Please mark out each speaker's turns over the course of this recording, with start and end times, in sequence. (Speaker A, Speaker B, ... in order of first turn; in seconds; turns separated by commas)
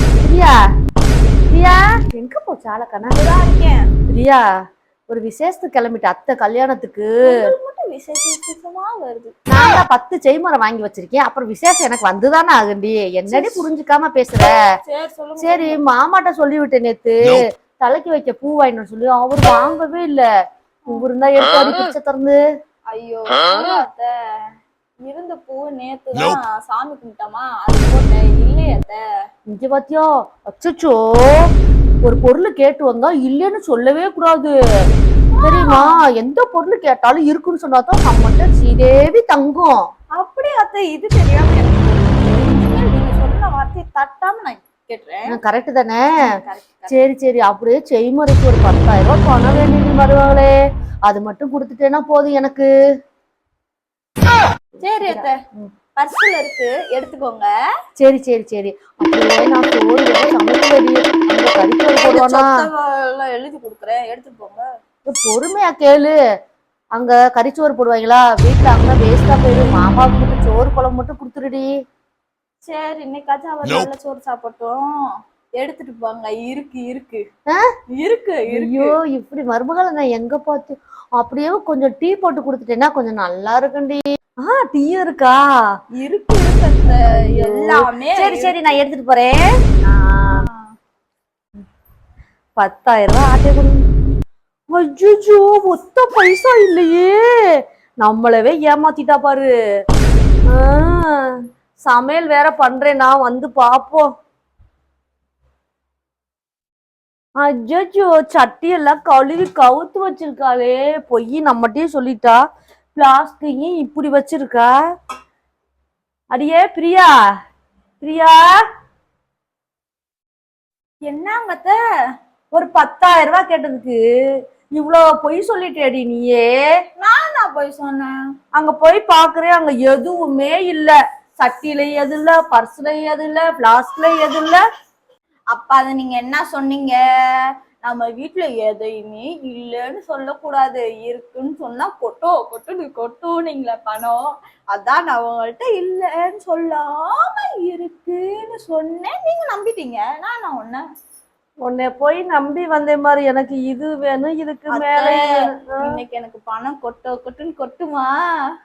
Speaker A: 0.2-0.5, Speaker A: 1.5-3.1, Speaker B: 3.1-3.8, Speaker A: 4.1-4.4, Speaker A: 5.1-7.4, Speaker B: 7.2-9.3, Speaker A: 9.5-14.5, Speaker B: 13.3-13.7, Speaker B: 14.8-15.8, Speaker A: 15.4-20.2, Speaker A: 20.9-22.4, Speaker B: 22.9-24.1, Speaker B: 25.0-29.0, Speaker A: 29.5-31.5, Speaker A: 32.0-34.5, Speaker B: 35.3-36.0, Speaker A: 35.4-39.9, Speaker B: 40.2-45.4, Speaker A: 45.3-46.2, Speaker B: 46.2-46.9, Speaker A: 46.9-50.5, Speaker A: 51.1-52.7, Speaker B: 54.8-55.4, Speaker A: 55.0-55.7, Speaker B: 56.0-57.5, Speaker A: 58.0-62.6, Speaker B: 62.0-64.7, Speaker A: 65.1-66.1, Speaker A: 67.0-71.7, Speaker B: 72.6-74.9, Speaker B: 75.6-77.2, Speaker B: 77.9-79.0, Speaker A: 78.5-85.4, Speaker B: 85.9-88.7, Speaker A: 87.1-89.4, Speaker A: 89.9-90.4, Speaker B: 90.3-90.7, Speaker A: 92.6-93.8, Speaker A: 94.7-99.5, Speaker A: 100.5-104.1, Speaker A: 107.4-112.4, Speaker A: 112.9-114.7, Speaker A: 116.3-117.1, Speaker A: 118.0-118.5, Speaker B: 121.0-121.8, Speaker A: 122.5-124.0, Speaker A: 124.7-126.6, Speaker B: 127.0-128.2, Speaker A: 128.6-134.6, Speaker B: 135.5-150.8, Speaker A: 151.7-155.9, Speaker B: 154.7-155.2, Speaker B: 155.8-158.2